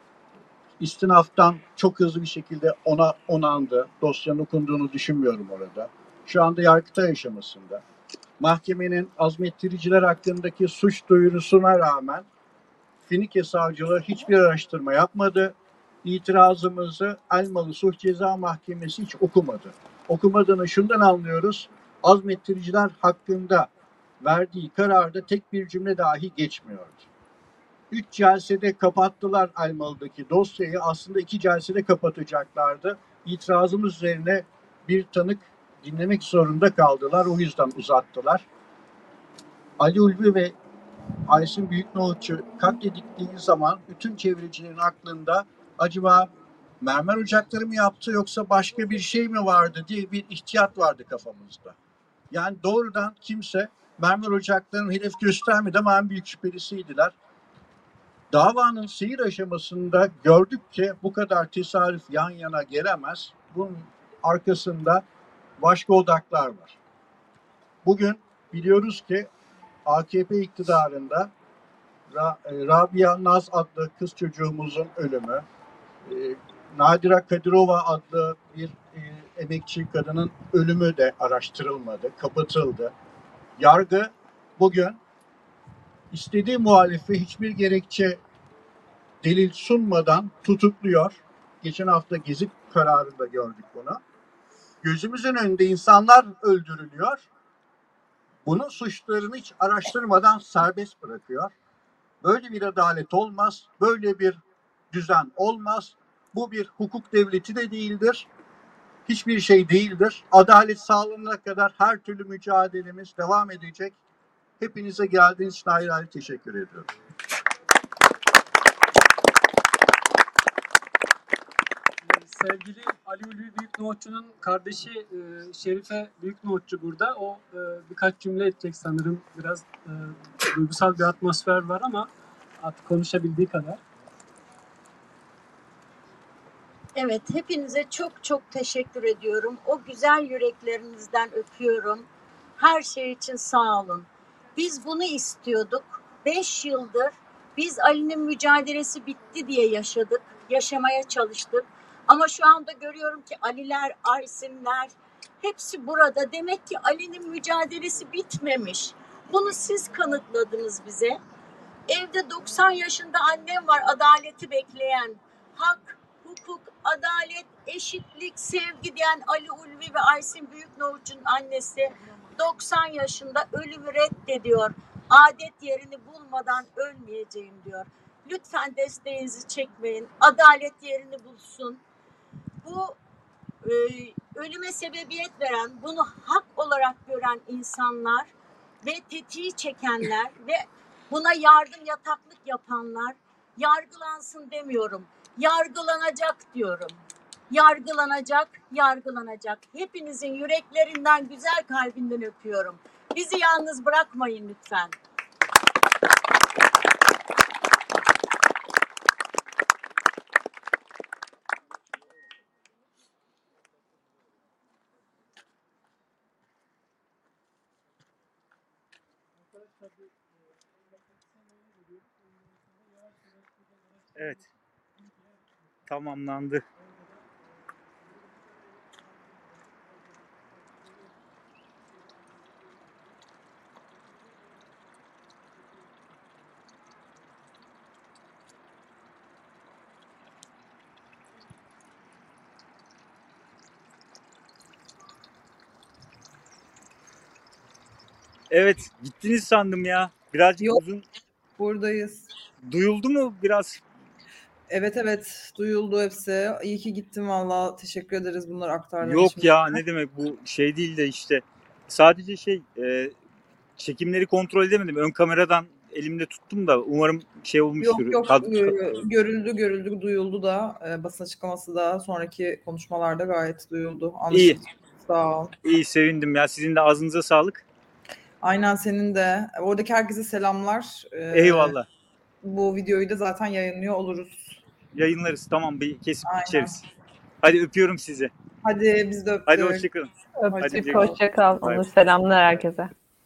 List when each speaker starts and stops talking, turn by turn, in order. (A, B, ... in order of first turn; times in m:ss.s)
0:00.8-0:07.8 A
0:08.4-0:12.2 A
0:13.1-0:23.7 A
0:24.2-0:27.1 A
0:27.9-0:38.4 A
0:39.8-0:40.5 A
0:41.3-0:51.8 A
0:52.3-0:57.1 A
0:58.3-1:05.0 A
1:05.6-1:06.8 A
1:07.8-1:09.3 A
1:09.8-1:11.3 A
1:12.1-1:15.4 A
1:16.0-1:22.9 A
1:23.6-1:25.0 A
1:26.1-1:28.2 A
1:29.2-1:34.0 A
1:34.8-1:37.3 A
1:38.4-1:41.5 A
1:42.2-1:44.4 A
1:44.9-1:48.3 A
1:49.0-1:54.0 A
1:54.6-1:56.9 A
2:02.0-2:12.1 B
2:12.6-2:13.8 B
2:17.0-2:41.2 C
2:41.9-3:01.8 C
3:02.6-3:03.0 C
3:03.6-3:08.3 C
3:08.8-3:17.0 C
3:17.5-3:24.9 C
3:44.2-3:44.5 D
3:45.9-3:46.6 D
4:08.5-4:11.1 D
4:11.6-4:12.3 E
4:12.6-4:13.8 D
4:14.7-4:19.8 E
4:19.0-4:23.1 D
4:23.8-4:28.8 D
4:27.8-4:35.5 E
4:34.3-4:34.6 D
4:35.6-4:37.6 D
4:38.4-4:41.8 E
4:41.3-4:41.9 D
4:42.4-4:44.6 E
4:44.9-4:46.8 D
4:46.2-4:46.8 E
4:47.4-4:48.3 D
4:48.6-4:49.9 E
4:49.5-4:51.9 D
4:50.4-4:52.9 F
4:50.6-4:51.2 E